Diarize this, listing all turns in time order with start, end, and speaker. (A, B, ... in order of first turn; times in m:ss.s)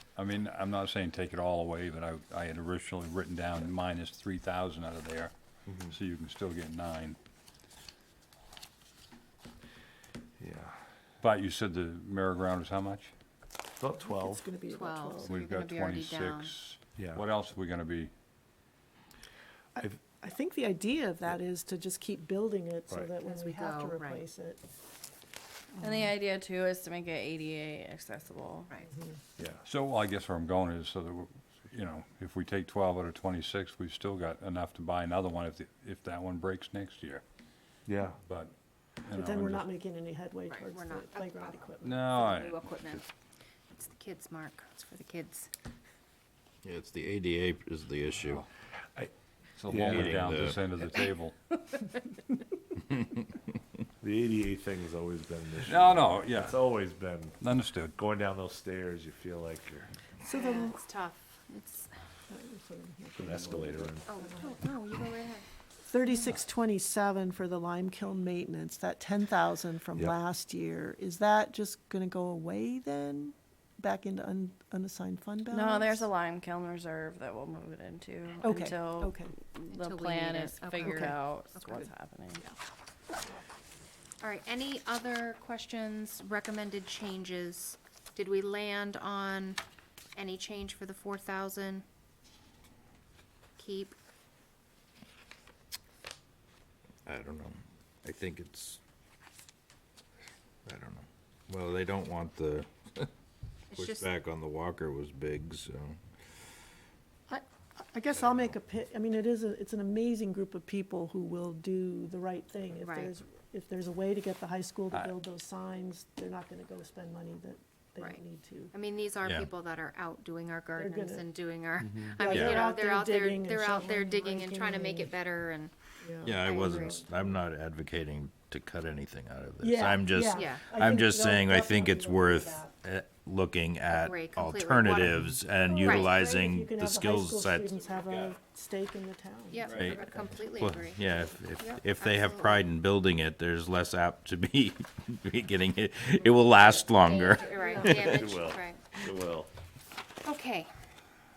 0:00.2-0:05.3 A
0:05.7-0:05.9 B
0:05.9-0:07.2 A
0:10.4-0:10.7 B
0:11.2-0:13.1 A
0:13.8-0:14.4 B
0:14.0-0:15.4 C
0:14.7-0:16.5 D
0:15.2-0:18.1 A
0:17.0-0:17.2 B
0:19.7-0:24.6 C
0:23.3-0:24.2 D
0:25.8-0:28.7 E
0:28.9-0:29.2 C
0:29.4-0:29.7 B
0:29.7-0:37.2 A
0:37.8-0:38.2 B
0:38.2-0:38.5 A
0:39.0-0:39.7 A
0:39.1-0:42.2 C
0:40.5-0:41.5 D
0:41.8-0:42.9 A
0:42.2-0:43.0 D
0:43.8-0:45.5 D
0:46.6-0:48.4 F
0:49.6-0:51.3 A
0:49.6-0:50.2 B
0:49.8-0:50.6 F
0:54.0-0:57.4 B
0:55.7-0:56.7 A
0:57.4-0:57.9 A
0:58.0-0:59.9 B
1:00.2-1:00.7 C
1:00.4-1:01.9 D
1:02.3-1:04.6 C
1:03.2-1:04.1 B
1:04.1-1:05.4 D
1:05.9-1:16.1 C
1:15.5-1:22.4 E
1:18.4-1:19.3 C
1:19.7-1:21.8 D
1:24.2-1:29.6 D
1:30.2-1:31.8 D
1:33.6-1:34.0 D
1:37.0-1:38.8 F
1:40.7-1:43.1 F
1:43.7-1:44.1 D
1:43.7-1:46.0 F
1:47.3-1:58.7 C
1:52.8-1:53.1 D
1:58.7-2:05.7 D
1:59.2-1:59.5 F
2:00.7-2:01.3 C
2:02.2-2:05.2 C
2:02.2-2:02.7 F
2:06.0-2:07.4 C
2:06.2-2:17.8 F
2:06.3-2:07.0 D
2:09.6-2:12.7 C
2:10.3-2:10.7 D
2:13.9-2:15.2 D
2:15.6-2:19.9 C
2:19.5-2:22.7 D
2:19.7-2:28.3 F
2:26.6-2:28.8 D
2:27.6-2:27.8 C
2:28.1-2:29.5 B
2:30.2-2:30.7 D